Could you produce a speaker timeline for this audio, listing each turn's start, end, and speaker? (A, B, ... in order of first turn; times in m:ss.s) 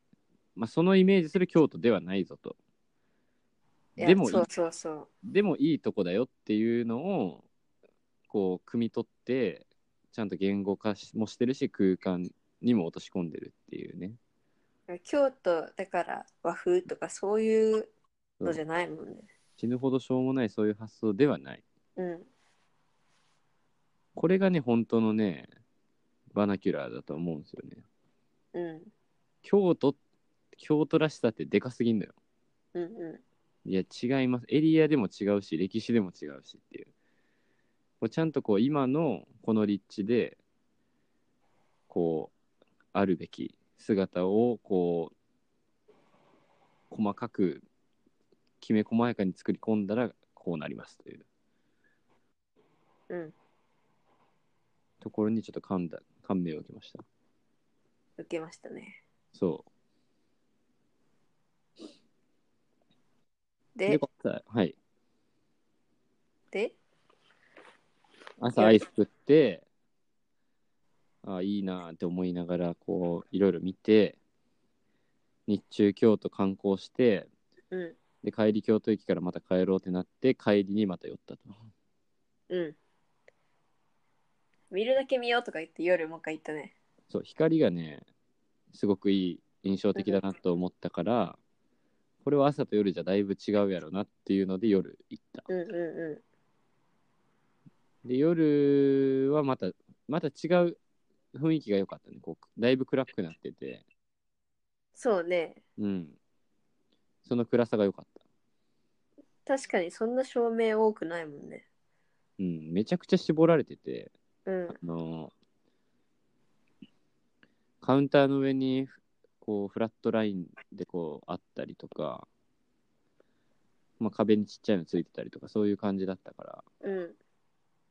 0:00.6-0:02.6 A
0:04.0-0:05.1 B
0:04.0-0:04.5 A
0:05.2-0:07.5 A
0:08.3-0:14.2 A
0:14.9-0:17.9 B
0:18.4-0:19.3 B
0:19.6-0:21.6 A
0:22.0-0:22.3 B
0:24.2-0:25.5 A
0:26.3-0:27.8 A
0:28.5-0:28.9 B
0:29.4-0:30.0 A
0:30.5-0:32.1 A
0:32.8-0:33.2 B
0:33.6-0:36.9 A
0:38.0-0:40.4 A
0:41.9-0:42.3 A
0:42.9-0:45.1 A
0:46.9-0:47.6 A
0:48.6-0:51.2 A
0:53.1-0:53.4 B
0:55.0-0:57.0 A
0:58.2-0:59.0 B
0:59.3-0:59.6 A
1:03.8-1:04.0 B
1:03.9-1:04.8 A
1:08.4-1:09.6 A
1:08.5-1:08.8 B
1:11.2-1:14.2 A
1:15.5-1:17.3 A
1:17.7-1:18.0 B
1:18.2-1:21.6 A
1:22.5-1:22.8 B
1:24.7-1:26.7 B
1:27.1-1:28.0 A
1:28.7-1:31.4 A
1:32.2-1:35.5 A
1:35.5-1:36.2 B
1:38.0-1:40.8 A
1:41.3-1:43.8 A
1:45.0-1:45.6 B
1:45.8-1:46.2 A
1:47.2-1:48.2 A
1:49.5-1:51.6 B
1:52.4-1:54.1 A
1:54.5-1:54.8 B
1:54.8-1:55.3 A
1:57.8-2:02.3 A
2:04.0-2:06.6 A
2:06.8-2:07.2 B